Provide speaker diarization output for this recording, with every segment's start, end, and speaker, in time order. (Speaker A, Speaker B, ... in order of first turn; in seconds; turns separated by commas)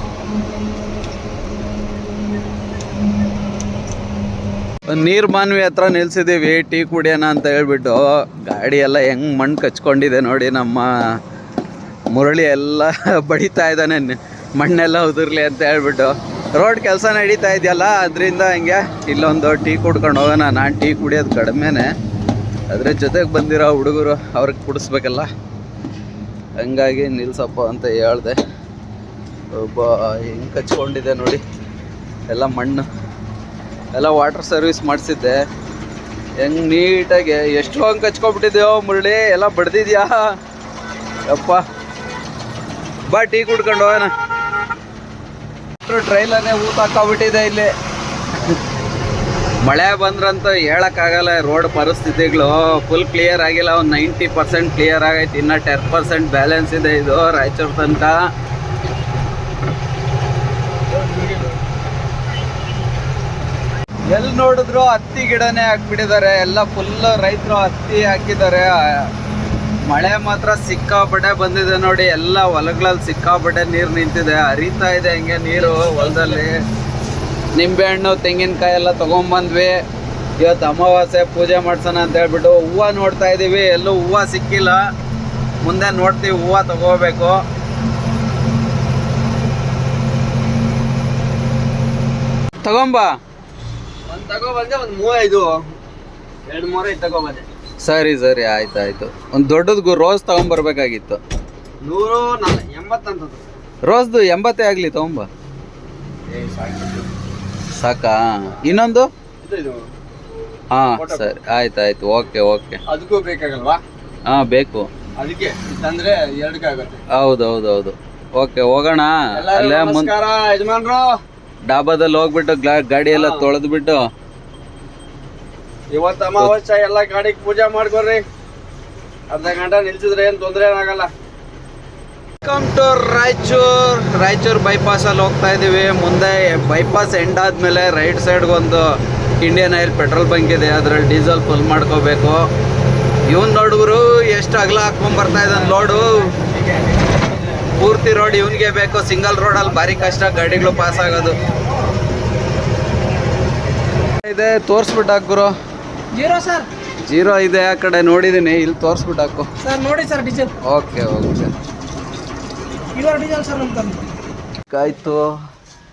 Speaker A: 4.9-10.9, Speaker A: 12.1-21.9, Speaker A: 22.7-25.3, Speaker A: 26.6-28.4, Speaker A: 29.5-31.4, Speaker A: 32.3-32.9, Speaker A: 33.9-35.4, Speaker A: 36.4-40.2, Speaker A: 41.3-41.6, Speaker A: 43.1-44.1, Speaker A: 45.9-47.7, Speaker A: 49.6-58.1, Speaker B: 60.9-61.6, Speaker A: 64.1-69.1, Speaker A: 69.9-76.6, Speaker B: 75.6-76.4, Speaker A: 77.6-79.7, Speaker A: 80.4-84.8, Speaker A: 85.6-87.4, Speaker A: 92.6-93.1, Speaker B: 94.1-95.6, Speaker B: 96.5-97.5, Speaker A: 97.8-101.2, Speaker B: 101.8-103.5, Speaker A: 103.8-105.3, Speaker B: 106.3-107.1, Speaker A: 107.8-109.1, Speaker B: 109.4-109.8, Speaker A: 110.7-112.8, Speaker B: 111.0-111.2, Speaker B: 112.9-113.8, Speaker A: 114.2-114.9, Speaker B: 115.2-117.0, Speaker A: 117.1-120.1, Speaker B: 119.3-121.1, Speaker A: 121.7-124.0, Speaker B: 123.1-123.4, Speaker B: 125.9-128.2, Speaker B: 129.3-131.1, Speaker A: 132.4-138.8, Speaker A: 139.4-142.4, Speaker A: 143.3-146.3, Speaker B: 145.5-148.5, Speaker A: 147.8-151.4, Speaker B: 149.6-151.8, Speaker A: 154.2-155.5, Speaker C: 156.1-156.7, Speaker A: 157.1-159.5, Speaker C: 159.6-160.5, Speaker A: 160.6-161.5, Speaker C: 162.9-164.1, Speaker A: 164.7-165.2